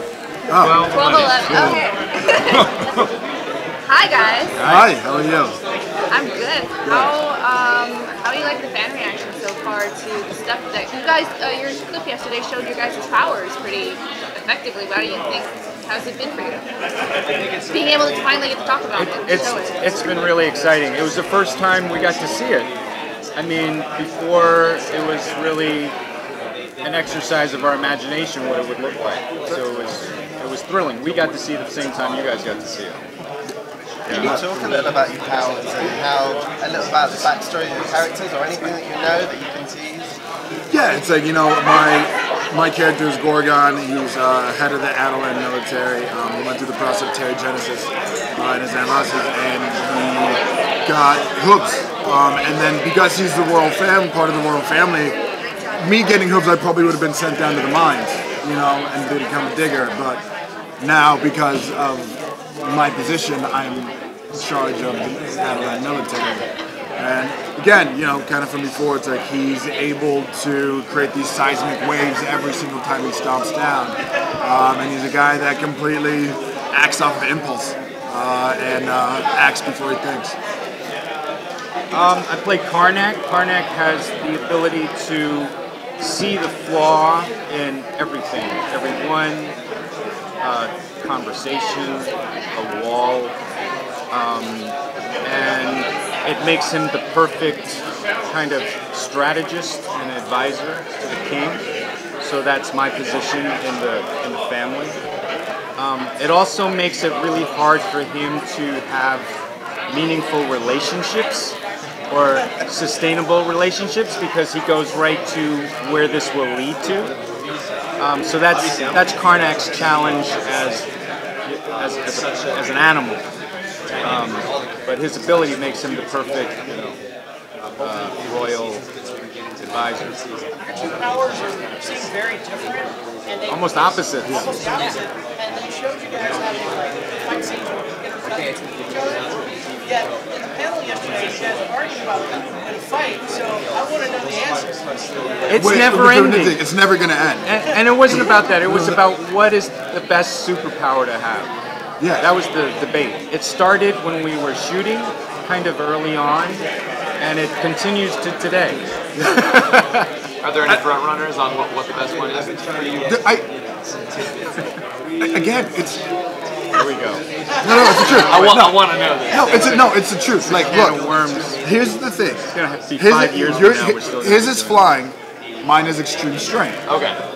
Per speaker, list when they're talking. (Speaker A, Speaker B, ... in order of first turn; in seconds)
Speaker A: 0.5-0.8, 1.4-1.8, 2.5-3.1, 4.6-5.6, 6.8-7.1, 34.1-34.9, 40.7-55.1, 55.8-60.2, 60.8-80.3, 134.2-134.5, 145.5-149.0, 152.0-152.2, 159.1-159.4, 163.0-163.5, 165.2-166.0, 167.6-171.0, 171.6-176.8
Speaker B: 0.6-1.8, 4.6-4.9, 18.9-22.7, 23.4-25.9, 26.8-33.0, 34.0-34.3, 81.9-89.5, 90.4-93.3, 94.1-101.6, 102.2-105.0, 105.8-109.3, 109.9-111.5, 112.1-117.1, 118.0-120.9, 121.4-123.2, 124.0-127.0, 127.8-128.8, 129.6-130.2, 133.5-134.5, 145.5-146.6, 147.4-151.5, 152.2-156.6, 157.2-160.1, 166.7-167.2, 169.3-169.7, 170.4-171.6, 172.5-174.8
Speaker C: 0.9-2.7, 3.8-4.6, 6.1-16.6, 17.7-19.8
Speaker D: 34.1-40.2
Speaker E: 130.8-133.5, 135.4-138.3, 138.9-139.2, 139.9-144.7
Speaker F: 160.4-162.5, 168.3-169.3